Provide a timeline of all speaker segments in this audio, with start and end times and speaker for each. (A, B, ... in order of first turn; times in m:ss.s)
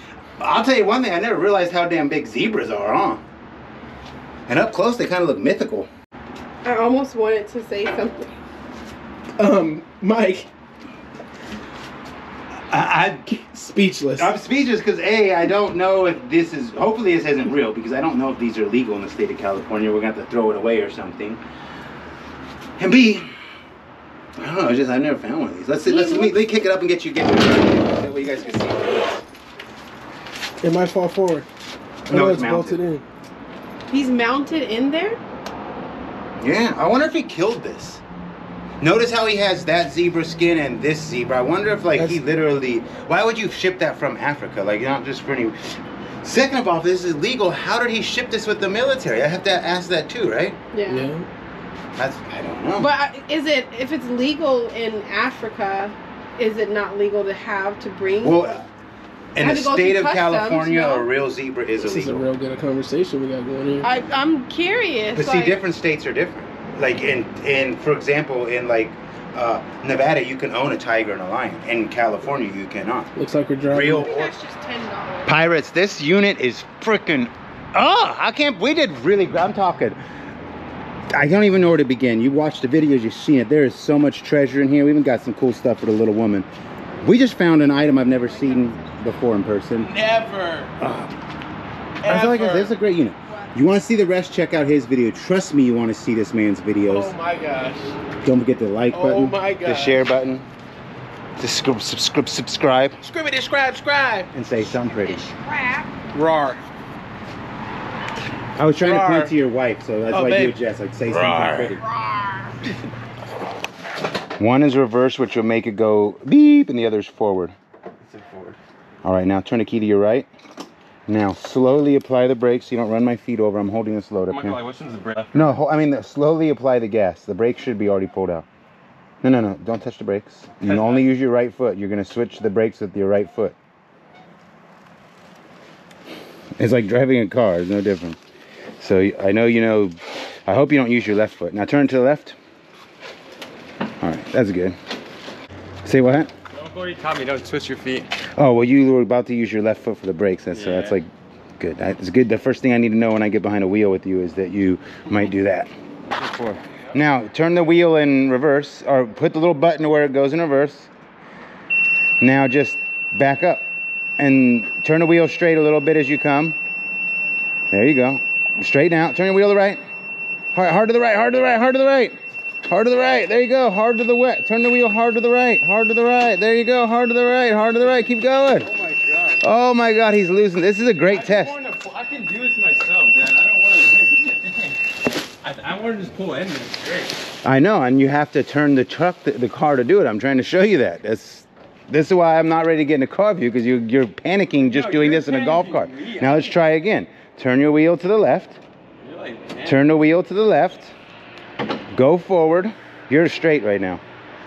0:00.4-0:03.2 A
0:04.5-0:05.9 A
0:06.6-0:08.4 B
0:09.4-0:10.5 C
0:12.7-0:13.3 A
0:13.3-0:14.3 C
0:14.2-0:21.4 A
0:22.8-0:23.3 A
0:24.4-0:29.2 A
0:25.8-0:26.4 B
0:30.6-0:31.5 C
0:32.1-0:32.8 A
0:32.1-0:33.1 C
0:33.9-0:35.2 B
0:36.4-0:38.0 A
0:38.8-0:50.6 A
0:50.7-0:51.1 B
0:50.9-0:51.3 C
0:52.0-0:52.9 A
0:52.8-0:58.6 B
0:58.2-0:58.6 A
0:59.4-1:02.2 A
0:59.4-1:01.1 B
1:01.8-1:03.9 C
1:03.8-1:05.6 B
1:05.2-1:13.1 A
1:13.2-1:14.1 C
1:13.7-1:14.4 A
1:13.9-1:15.3 B
1:15.3-1:20.0 A
1:21.1-1:26.5 A
1:27.0-1:29.9 A
1:28.0-1:29.0 B
1:29.8-1:30.7 C
1:30.8-1:31.1 A
1:32.0-1:32.7 C
1:32.0-1:37.1 A
1:36.9-1:38.0 C
1:38.2-1:40.5 A
1:38.9-1:40.0 C
1:41.4-1:43.0 A
1:43.0-1:44.3 C
1:44.3-1:45.2 A
1:44.7-1:45.9 B
1:46.1-1:46.6 C
1:48.6-1:51.8 A
1:48.8-1:49.3 C
1:50.1-1:51.8 C
1:51.8-1:52.6 B
1:54.4-1:57.6 A
1:58.0-1:58.6 D
1:59.0-2:00.3 A
2:01.1-2:04.6 A
2:04.3-2:05.4 D
2:05.3-2:08.5 A
2:09.2-2:13.6 A
2:10.6-2:11.0 D
2:16.6-2:18.2 A
2:18.8-2:22.4 A
2:24.0-2:24.8 A
2:25.8-2:26.3 A
2:26.5-2:28.1 D
2:28.4-2:40.9 A
2:30.5-2:31.0 D
2:42.2-2:43.7 A
2:44.2-2:46.6 A
2:47.7-2:49.8 A
2:50.5-2:52.2 A
2:52.7-2:58.7 A
2:58.6-2:59.4 D
2:59.4-3:01.6 A
3:01.1-3:04.8 D
3:05.4-3:07.2 D
3:07.4-3:18.6 A
3:14.6-3:16.6 D
3:19.0-3:19.9 D
3:19.6-3:20.9 A
3:21.9-3:24.0 A